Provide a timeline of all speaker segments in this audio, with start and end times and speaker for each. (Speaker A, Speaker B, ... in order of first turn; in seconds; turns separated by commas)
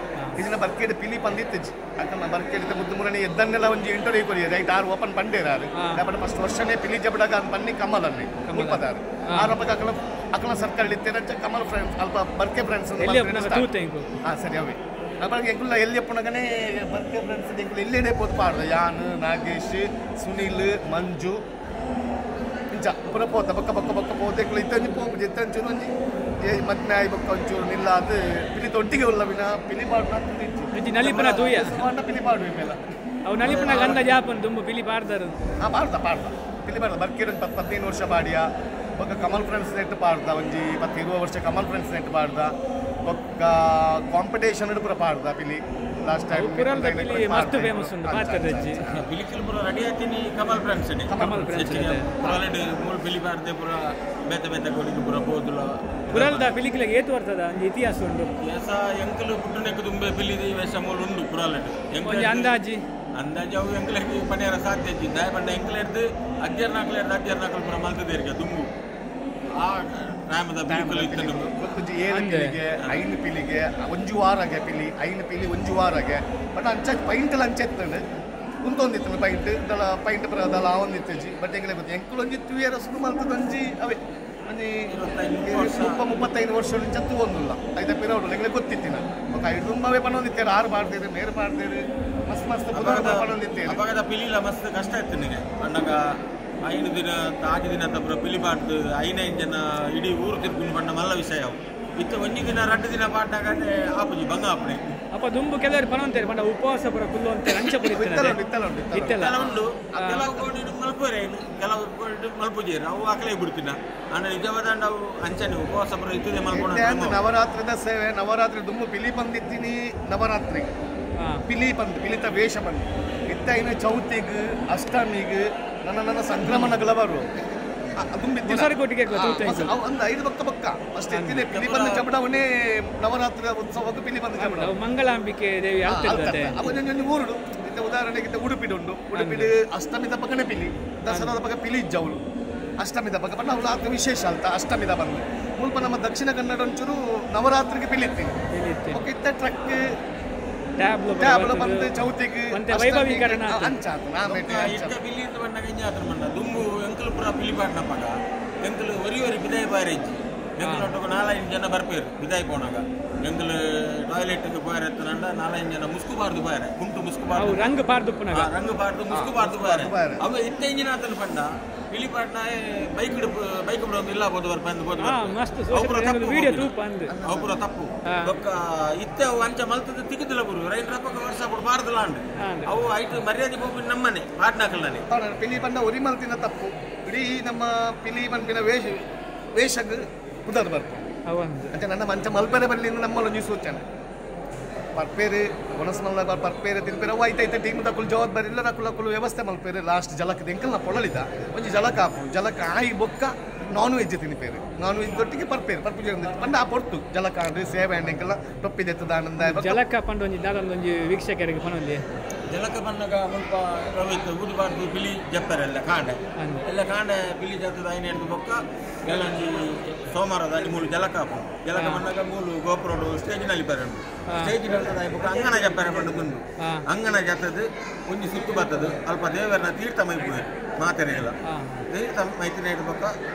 Speaker A: 0.4-13.7, Speaker B: 5.8-6.0, Speaker B: 8.4-9.5, Speaker B: 13.0-14.1, Speaker A: 14.2-21.4, Speaker A: 22.7-32.8, Speaker B: 30.7-31.8, Speaker B: 33.2-35.4, Speaker A: 33.4-34.0, Speaker A: 35.6-42.5, Speaker A: 43.1-49.0, Speaker B: 46.3-48.8, Speaker C: 48.9-56.5, Speaker A: 51.1-52.4, Speaker B: 51.2-52.1, Speaker B: 56.1-58.4, Speaker C: 58.4-62.5, Speaker B: 62.0-62.8, Speaker C: 63.2-68.7, Speaker C: 69.6-71.5, Speaker A: 70.7-78.0, Speaker B: 72.1-72.6, Speaker A: 78.6-84.9, Speaker C: 84.9-86.0, Speaker A: 85.4-93.8, Speaker C: 92.7-96.0, Speaker C: 96.6-104.8, Speaker B: 105.1-108.4, Speaker A: 107.8-110.5, Speaker B: 108.9-109.4, Speaker C: 109.1-117.2, Speaker B: 110.0-110.2, Speaker A: 116.5-120.7, Speaker B: 121.2-121.4, Speaker A: 121.5-127.3, Speaker A: 128.0-134.7, Speaker B: 128.5-129.7, Speaker B: 131.1-131.4, Speaker C: 131.4-132.1, Speaker B: 134.4-136.7, Speaker A: 135.9-142.2, Speaker B: 139.1-139.5, Speaker B: 141.1-141.4, Speaker A: 142.8-148.4, Speaker B: 148.5-149.0, Speaker A: 148.9-149.8, Speaker B: 150.8-153.8, Speaker A: 151.2-155.0, Speaker C: 154.2-167.8, Speaker B: 160.6-160.9, Speaker B: 167.3-168.5, Speaker C: 168.3-176.7, Speaker A: 169.1-170.2, Speaker B: 175.0-177.1, Speaker A: 177.1-177.6, Speaker C: 177.2-185.1, Speaker B: 178.1-178.3, Speaker B: 182.4-182.7, Speaker A: 185.1-191.1, Speaker B: 191.2-191.8, Speaker A: 191.7-193.8, Speaker A: 195.0-209.8, Speaker B: 209.4-212.0, Speaker C: 212.5-231.4, Speaker B: 216.4-216.7, Speaker B: 221.7-222.1, Speaker B: 224.3-224.6, Speaker B: 231.4-231.8, Speaker C: 231.9-233.1